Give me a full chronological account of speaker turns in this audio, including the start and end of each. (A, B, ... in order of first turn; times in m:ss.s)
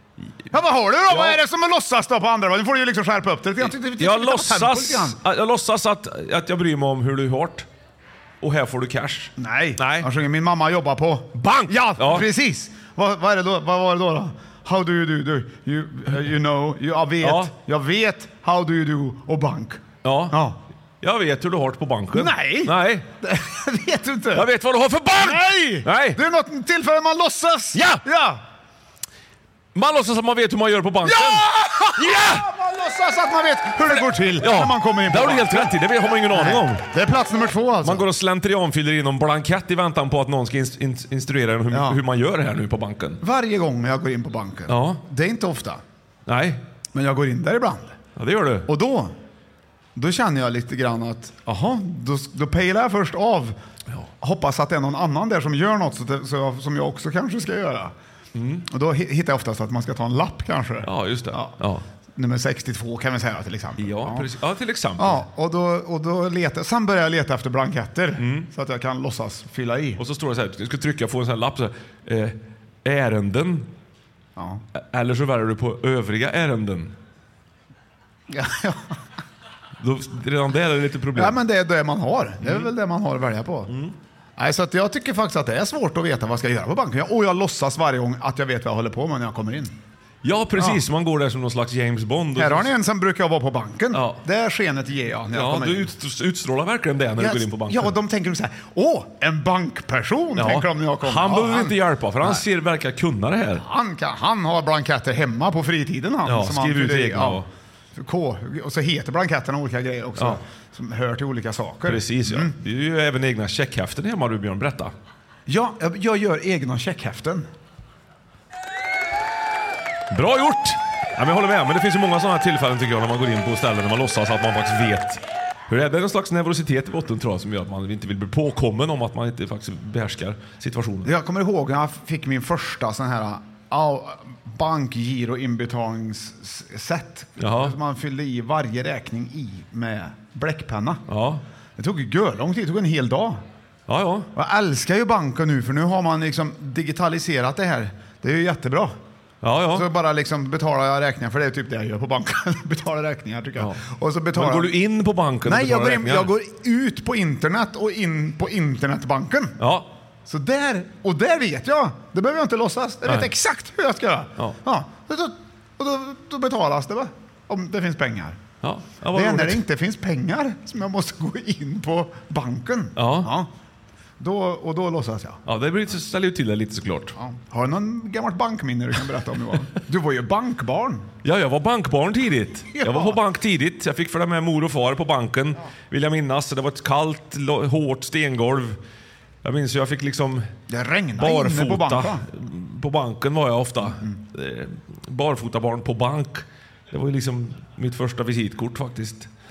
0:00.5-0:05.2 A
0:01.1-0:01.4 B
0:04.0-0:07.7 B
0:08.4-0:10.1 B
0:09.4-0:20.6 A
0:11.4-0:12.3 B
0:17.2-0:17.5 B
0:20.0-0:20.4 B
0:21.0-0:23.1 B
0:22.1-0:24.5 A
0:24.3-0:26.2 B
0:25.2-0:28.4 A
0:27.8-0:28.0 B
0:29.8-0:32.5 B
0:31.0-0:38.1 A
0:34.4-0:36.8 B
0:37.8-0:43.2 B
0:41.7-0:42.0 A
0:43.2-0:45.8 A
0:44.7-0:45.0 B
0:46.3-0:46.6 B
0:46.9-0:48.0 A
0:48.2-0:48.7 B
0:48.7-0:49.2 A
0:50.0-0:53.6 A
0:54.2-0:57.9 A
0:58.4-0:58.7 B
0:58.7-1:01.5 A
1:00.8-1:01.8 B
1:02.2-1:04.3 A
1:03.8-1:05.2 B
1:05.0-1:10.0 A
1:08.2-1:08.5 B
1:10.0-1:13.7 B
1:14.4-1:14.6 A
1:14.8-1:16.9 B
1:18.3-1:19.0 A
1:19.8-1:21.4 B
1:21.2-1:23.7 A
1:22.4-1:22.7 B
1:23.7-1:23.9 B
1:24.4-1:29.8 A
1:30.2-1:32.7 B
1:32.4-1:35.9 A
1:33.9-1:34.2 B
1:35.3-1:38.0 B
1:37.2-1:42.4 A
1:40.4-1:43.6 B
1:43.6-1:52.6 A
1:46.2-1:47.5 B
1:51.9-1:54.9 B
1:55.5-1:57.5 A
2:00.1-2:11.1 B
2:11.0-2:21.0 A
2:17.4-2:17.8 B
2:21.1-2:21.4 B
2:21.8-2:23.4 A
2:23.9-2:24.3 B
2:24.3-2:29.0 A
2:29.4-2:29.9 B
2:29.7-2:34.7 A
2:34.3-2:36.3 B
2:35.4-2:39.6 A
2:39.6-2:39.9 B
2:40.3-2:48.4 A
2:48.6-2:49.6 B
2:49.1-2:53.5 A
2:53.0-2:53.3 B
2:54.2-2:55.4 A
2:55.5-2:57.2 B
2:57.2-3:01.1 A
3:01.2-3:08.8 B
3:02.7-3:03.2 A
3:09.4-3:10.5 B
3:10.7-3:12.2 A
3:11.2-3:19.3 B
3:13.8-3:14.2 A